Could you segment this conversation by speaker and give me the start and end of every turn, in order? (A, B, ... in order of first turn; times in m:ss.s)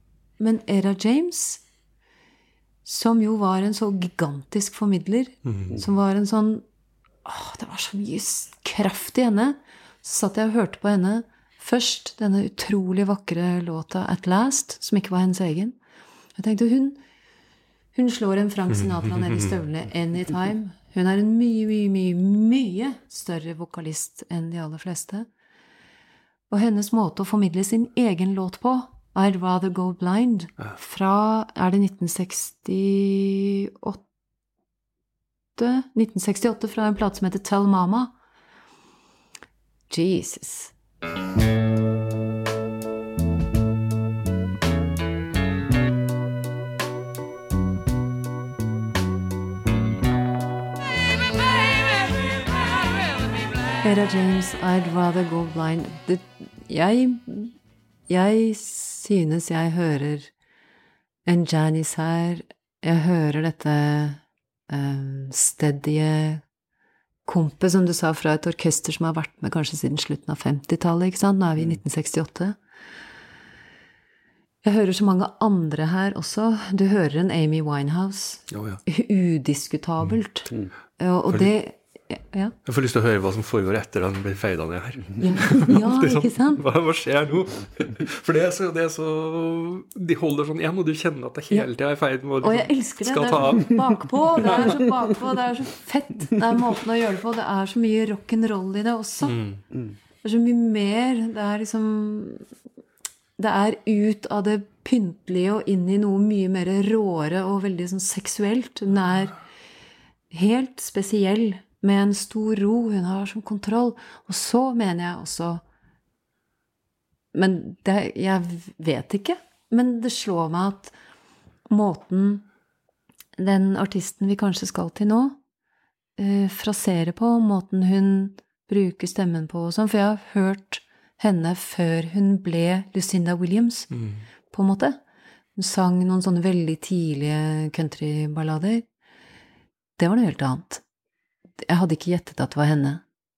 0:00.4-0:01.6 A
0:02.8-0:06.6 A
0:05.4-0:05.8 B
0:07.2-0:15.8 A
0:16.4-0:17.0 A
0:17.9-0:25.3 A
0:18.7-0:19.5 B
0:26.5-0:34.0 A
0:35.6-0:38.1 A
0:39.9-0:40.7 A
0:53.8-0:57.6 A
0:58.1-1:00.3 A
1:01.3-1:06.4 A
1:07.3-1:12.6 A
1:14.6-1:22.6 A
1:18.5-1:18.8 B
1:22.7-1:34.8 B
1:25.2-1:26.6 A
1:32.4-1:39.4 A
1:39.2-1:39.6 B
1:40.2-1:42.4 A
1:43.4-1:49.4 A
1:50.3-1:55.6 A
1:57.3-2:00.9 A
2:01.7-2:02.5 A
2:03.4-2:05.4 A
2:06.2-2:13.9 A
2:13.9-2:14.2 B
2:14.5-2:15.0 A
2:15.6-2:18.9 A
2:20.0-2:20.8 A
2:21.6-2:23.0 A